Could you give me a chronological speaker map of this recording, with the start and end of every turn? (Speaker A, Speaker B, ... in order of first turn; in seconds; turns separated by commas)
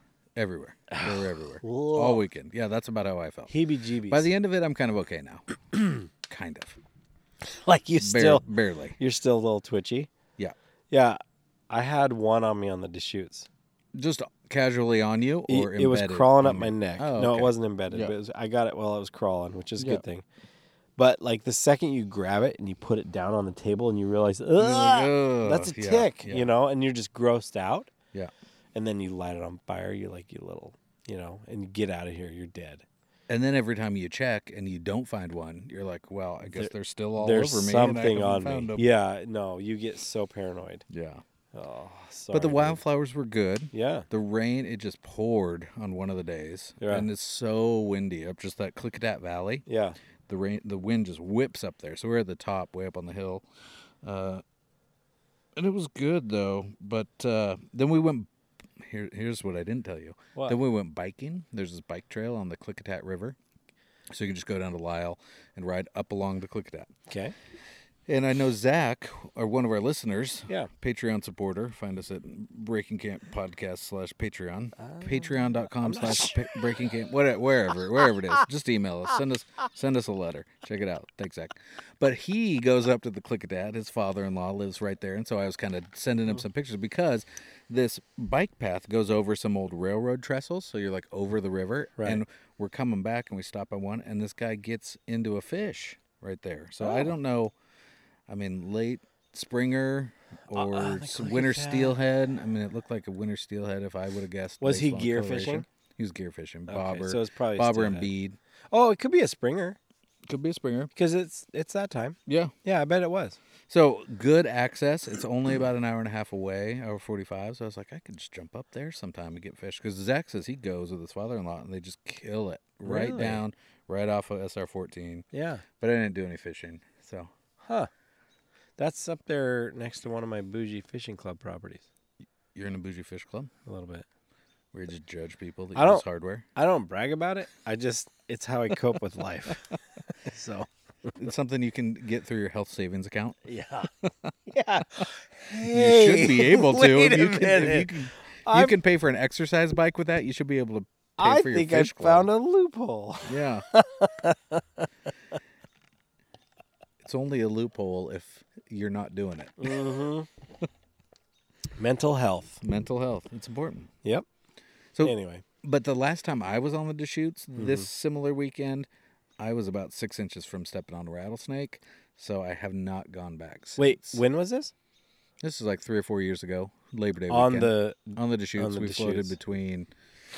Speaker A: 0.4-3.5, Speaker B: 0.9-2.2, Speaker B: 3.5-4.3, Speaker A: 4.1-5.5, Speaker A: 6.2-6.8, Speaker B: 7.4-8.4, Speaker A: 8.0-9.0, Speaker B: 9.0-10.1, Speaker B: 10.9-11.2, Speaker B: 11.7-13.5, Speaker A: 13.9-18.1, Speaker B: 15.5-20.2, Speaker B: 21.0-27.9, Speaker A: 24.6-26.5, Speaker B: 28.8-32.9, Speaker A: 33.3-38.9, Speaker B: 36.5-40.9, Speaker A: 40.9-41.2, Speaker B: 41.5-42.8, Speaker A: 42.3-49.6, Speaker B: 43.7-44.1, Speaker B: 46.8-47.1, Speaker B: 49.7-50.0, Speaker A: 50.3-53.5, Speaker A: 54.0-54.4, Speaker A: 55.6-63.4, Speaker A: 64.1-66.9, Speaker B: 67.1-67.3, Speaker A: 68.1-97.5, Speaker B: 74.8-76.6, Speaker B: 96.8-97.1, Speaker A: 98.3-108.4, Speaker B: 100.5-102.0, Speaker B: 104.6-105.7, Speaker B: 106.7-108.1, Speaker B: 108.7-109.8, Speaker A: 110.3-110.9, Speaker B: 111.0-113.4, Speaker A: 112.3-112.5, Speaker A: 113.7-125.3, Speaker B: 122.8-123.4, Speaker B: 125.3-125.6, Speaker A: 125.8-127.3, Speaker B: 127.6-127.9, Speaker B: 128.8-131.9, Speaker A: 132.5-133.5, Speaker B: 133.7-134.1, Speaker A: 134.7-136.5, Speaker B: 135.8-136.0, Speaker B: 136.6-141.2, Speaker A: 141.2-143.4, Speaker B: 143.4-143.9, Speaker A: 144.0-144.3, Speaker B: 144.5-148.8, Speaker A: 145.6-152.3, Speaker B: 151.2-154.9, Speaker A: 153.3-153.7, Speaker A: 157.0-159.8, Speaker B: 159.6-160.3, Speaker B: 161.8-162.6, Speaker A: 162.6-163.9, Speaker A: 164.9-168.9, Speaker B: 165.0-165.4, Speaker B: 167.5-167.9, Speaker A: 169.4-174.2, Speaker B: 173.8-174.7, Speaker A: 175.4-179.9, Speaker B: 177.3-179.4